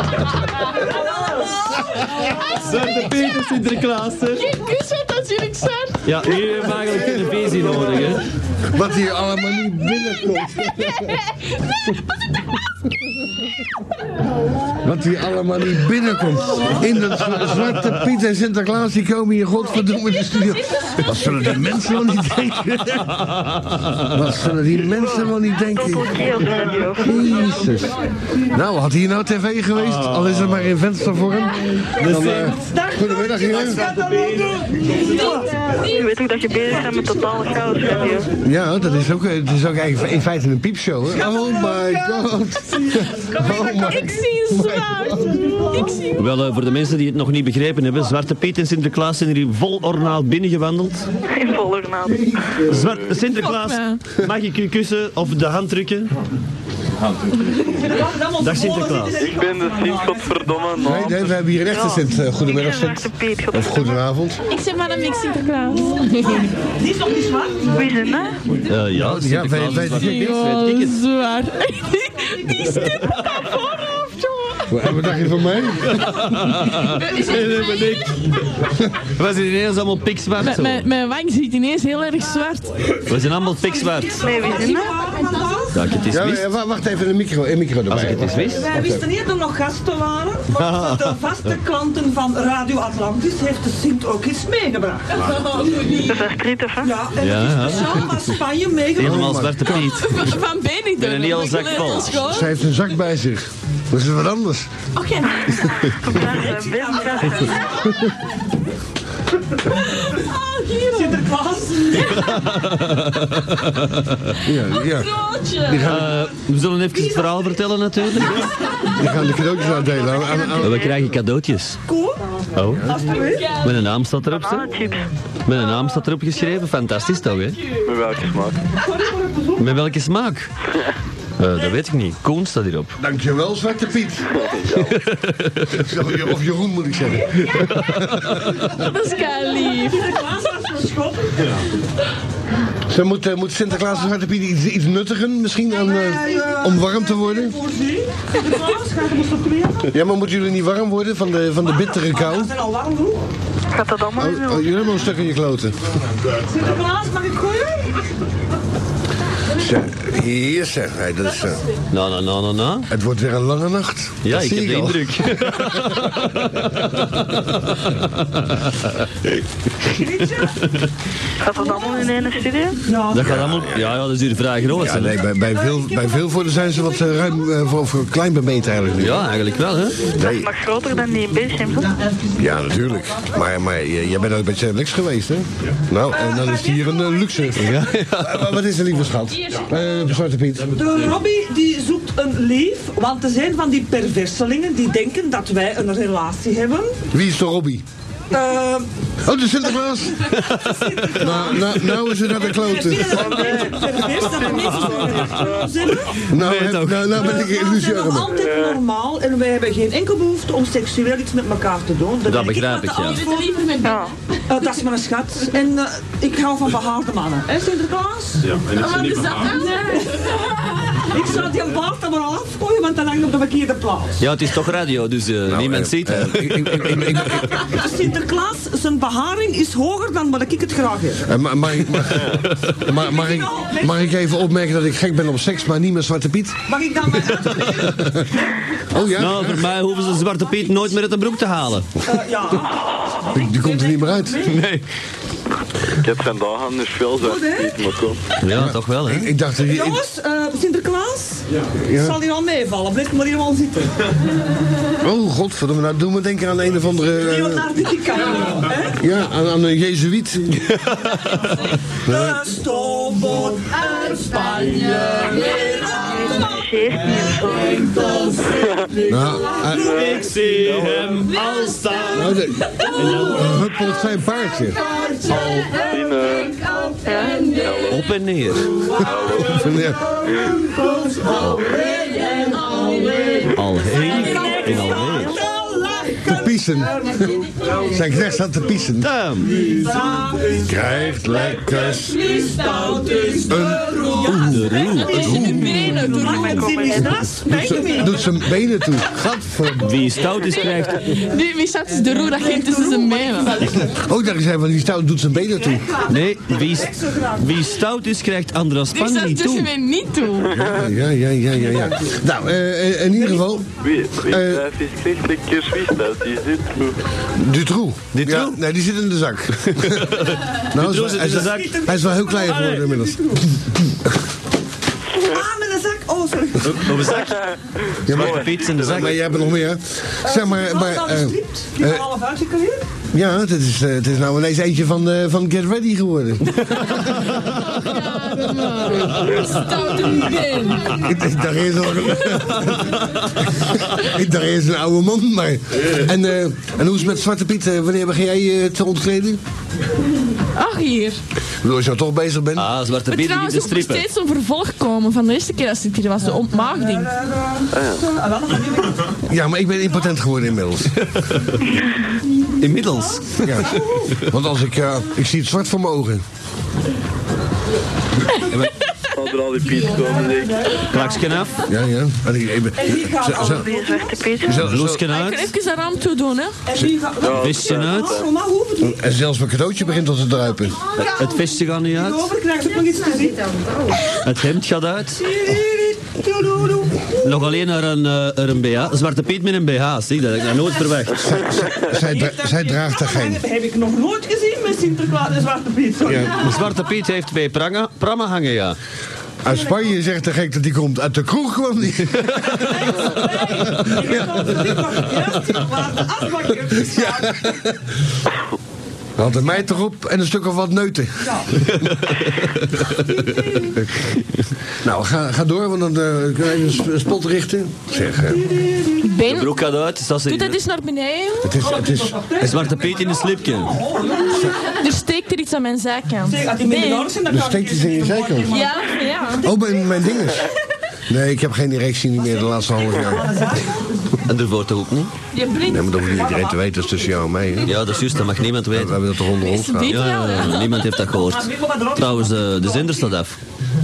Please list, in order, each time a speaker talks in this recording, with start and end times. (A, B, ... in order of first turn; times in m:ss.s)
0:00.7-0:02.6 A
0:02.3-0:03.6 B
0:02.5-0:04.5 C
0:04.3-0:06.2 B
0:06.0-0:08.3 C
0:08.7-0:11.2 D
0:09.9-0:12.0 B
0:14.8-0:23.4 D
0:16.5-0:16.8 A
0:20.7-0:21.4 B
0:23.2-0:24.1 C
0:24.1-0:33.8 D
0:24.9-0:27.2 E
0:29.8-0:30.7 C
0:32.0-0:32.5 C
0:32.4-0:35.9 A
0:35.2-0:35.9 B
0:35.8-0:38.3 E
0:36.6-0:38.3 A
0:38.4-0:45.4 D
0:41.1-0:42.0 A
0:42.7-0:43.2 A
0:43.2-0:46.4 B
0:45.3-0:46.0 A
0:46.2-0:51.1 C
0:51.3-0:52.4 E
0:52.1-0:52.8 D
0:52.7-0:56.1 C
0:52.8-0:53.1 F
0:53.3-0:54.0 B
0:57.0-0:59.2 C
0:57.8-1:00.6 A
0:59.2-1:01.4 F
1:00.8-1:04.4 D
1:01.7-1:04.0 E
1:04.5-1:06.5 B
1:06.3-1:08.1 A
1:07.7-1:08.4 E
1:08.6-1:11.0 C
1:08.9-1:10.2 D
1:09.9-1:14.7 B
1:14.7-1:16.0 D
1:15.8-1:18.3 C
1:16.5-1:18.4 B
1:19.1-1:20.9 C
1:20.4-1:22.8 B
1:23.1-1:24.2 C
1:23.5-1:25.9 A
1:24.2-1:24.9 E
1:24.6-1:24.9 B
1:25.7-1:26.5 C
1:26.1-1:29.0 D
1:27.9-1:28.7 C
1:28.5-1:35.3 A
1:30.5-1:31.2 C
1:35.3-1:36.2 B
1:36.0-1:36.9 E
1:36.8-1:39.3 A
1:37.2-1:38.1 C
1:39.0-1:39.9 D
1:39.0-1:40.3 C
1:39.8-1:42.6 B
1:41.0-1:42.2 C
1:42.2-1:44.7 D
1:45.0-1:45.7 B
1:45.5-1:47.9 E
1:46.1-1:47.6 A
1:49.7-1:51.3 B
1:50.9-1:52.3 A
1:52.0-1:52.9 B
1:52.2-1:54.4 C
1:54.4-1:55.9 B
1:54.4-1:56.3 D
1:55.8-1:58.5 C
1:56.9-1:57.5 A
1:58.6-1:59.0 B
1:59.0-2:01.0 D
1:59.8-2:00.9 B
2:00.6-2:01.8 C
2:01.9-2:02.3 A
2:02.6-2:02.9 C
2:02.8-2:03.6 A
2:03.1-2:03.7 B
2:03.6-2:04.7 C
2:04.3-2:05.1 E
2:05.5-2:07.6 C
2:05.5-2:06.5 B
2:07.5-2:08.0 B
2:07.8-2:08.6 F
2:08.8-2:09.9 A
2:09.6-2:10.5 C
2:11.4-2:13.0 C
2:13.0-2:14.4 D
2:14.3-2:15.1 F
2:14.8-2:15.9 C
2:15.7-2:18.4 D
2:17.6-2:18.7 C
2:18.6-2:20.2 B
2:19.5-2:21.6 A
2:22.9-2:27.6 D
2:25.8-2:30.0 A
2:29.9-2:32.5 D
2:31.8-2:33.3 A
2:33.7-2:34.9 E
2:34.2-2:35.9 D
2:36.3-2:38.1 A
2:39.5-2:41.6 D
2:41.9-2:42.9 C
2:42.9-2:46.7 D
2:44.2-2:49.1 C
2:49.9-2:50.7 A
2:50.4-2:50.9 C
2:51.4-2:52.8 E
2:52.8-2:53.4 A
2:53.1-2:55.2 C
2:53.2-2:54.0 D
2:54.7-2:59.3 D
2:55.5-2:57.3 A
2:59.0-3:00.1 C
3:00.0-3:00.5 D
3:00.3-3:01.9 E
3:02.4-3:11.0 D
3:06.1-3:07.8 A
3:07.6-3:08.4 C
3:09.4-3:09.7 B
3:10.8-3:17.0 A
3:17.1-3:17.8 D
3:18.3-3:18.9 A
3:19.2-3:20.4 D
3:20.3-3:21.3 C
3:20.5-3:26.2 A
3:21.2-3:23.6 D
3:23.5-3:25.6 C
3:26.3-3:28.4 D
3:26.3-3:27.2 C
3:27.2-3:33.6 A
3:28.4-3:28.8 F
3:32.3-3:33.2 C
3:32.9-3:34.1 B
3:33.8-3:34.1 E
3:34.5-3:38.5 A
3:38.4-3:39.5 C
3:38.7-3:41.1 B
3:39.5-3:44.2 A
3:44.2-3:47.2 C
3:45.5-3:47.6 D
3:47.2-3:51.3 A
3:51.2-3:56.7 D
3:52.4-3:52.8 C
3:52.9-3:54.2 A
3:56.7-3:58.6 A
3:57.6-3:57.9 C
3:57.9-3:58.3 D
3:58.9-3:59.8 D
3:59.2-4:01.9 C
4:02.0-4:04.6 A
4:03.3-4:04.5 D
4:04.4-4:04.8 C
4:06.0-4:08.2 F
4:07.2-4:07.9 A
4:08.4-4:09.3 C
4:08.5-4:10.0 D
4:09.6-4:14.1 A
4:11.8-4:12.2 D
4:15.0-4:17.7 D
4:17.2-4:19.0 A
4:19.0-4:20.7 D
4:20.8-4:21.5 C
4:21.9-4:25.8 A
4:22.0-4:22.4 D
4:24.1-4:26.4 B
4:26.1-4:28.2 E
4:28.5-4:29.0 F
4:29.0-4:30.0 D
4:29.6-4:33.5 C
4:29.7-4:31.2 F
4:32.0-4:33.9 B
4:32.1-4:34.8 D
4:34.8-4:37.9 B
4:35.3-4:36.5 F
4:37.1-4:37.5 E
4:37.6-4:38.0 F
4:37.9-4:38.8 C
4:39.0-4:39.6 F
4:39.3-4:40.1 D
4:40.7-4:43.1 A
4:41.6-4:43.5 B
4:43.5-4:45.4 C
4:43.9-4:46.6 A
4:46.3-4:49.1 D
4:49.0-4:49.6 C
4:49.6-4:50.8 A
4:50.6-4:52.3 D
4:51.7-4:58.3 A
4:52.2-4:56.7 B
4:53.5-4:55.8 D
4:54.4-4:55.9 C
4:55.8-4:57.3 E
4:57.6-5:00.0 D
4:59.7-5:01.0 C
5:01.1-5:03.6 B
5:02.1-5:04.0 A
5:03.9-5:05.9 D
5:05.4-5:07.7 A
5:06.1-5:09.7 C
5:08.9-5:10.5 B
5:10.5-5:13.7 D
5:11.6-5:12.1 A
5:13.2-5:13.5 A
5:13.8-5:17.0 F
5:14.3-5:14.6 D
5:17.4-5:24.2 D
5:18.1-5:18.6 C
5:19.6-5:21.8 C
5:21.2-5:23.4 A
5:25.1-5:27.3 A
5:26.6-5:27.5 C
5:27.3-5:29.2 F
5:28.1-5:32.0 D
5:28.1-5:29.2 C
5:30.2-5:32.9 A
5:33.1-5:37.3 D
5:36.6-5:37.5 C
5:37.0-5:41.2 B
5:41.0-5:49.4 D
5:42.8-5:43.7 C
5:50.6-5:51.2 B
5:51.6-5:52.7 D
5:52.6-5:54.0 C
5:53.1-5:57.1 B
5:56.3-5:59.2 A
5:57.7-5:58.0 F
5:59.3-6:01.0 D
6:01.0-6:01.6 C
6:02.6-6:04.2 C
6:02.8-6:04.2 A
6:03.4-6:06.2 D
6:09.1-6:10.9 F
6:09.8-6:11.3 A
6:10.9-6:11.6 C
6:11.7-6:13.6 D
6:12.8-6:14.5 A
6:13.5-6:14.6 E
6:14.4-6:15.0 D
6:14.6-6:15.5 C
6:15.0-6:16.6 B
6:16.7-6:19.0 A
6:17.2-6:18.2 F
6:17.3-6:18.2 C
6:18.8-6:20.8 D
6:21.0-6:22.3 C
6:21.9-6:23.8 A
6:24.1-6:25.2 C
6:25.2-6:27.6 A
6:27.2-6:31.6 C
6:31.3-6:33.4 D
6:31.7-6:36.5 A
6:36.0-6:36.4 D
6:36.3-6:38.8 C
6:39.4-6:44.8 D
6:39.5-6:39.8 A
6:42.3-6:42.6 C
6:42.5-6:47.8 A
6:46.9-6:47.7 D
6:49.2-6:51.6 D
6:51.2-6:51.6 A
6:51.8-6:53.1 C
6:53.0-6:53.8 A
6:54.8-6:58.4 D
6:58.0-6:59.2 A
6:59.0-6:59.6 B
6:59.3-7:00.6 C
7:00.2-7:01.6 B
7:01.4-7:02.3 D
7:01.6-7:04.8 A
7:02.4-7:03.8 C
7:04.7-7:07.1 B
7:06.2-7:09.4 A
7:07.3-7:08.6 D
7:08.5-7:09.5 B
7:09.4-7:10.5 D
7:11.1-7:13.5 D
7:12.4-7:14.1 A
7:14.2-7:15.1 C
7:15.3-7:16.0 B
7:15.6-7:17.9 D
7:16.0-7:17.1 A
7:17.6-7:19.0 C
7:18.7-7:20.0 D
7:19.3-7:20.9 B
7:19.9-7:23.4 C
7:21.1-7:23.1 A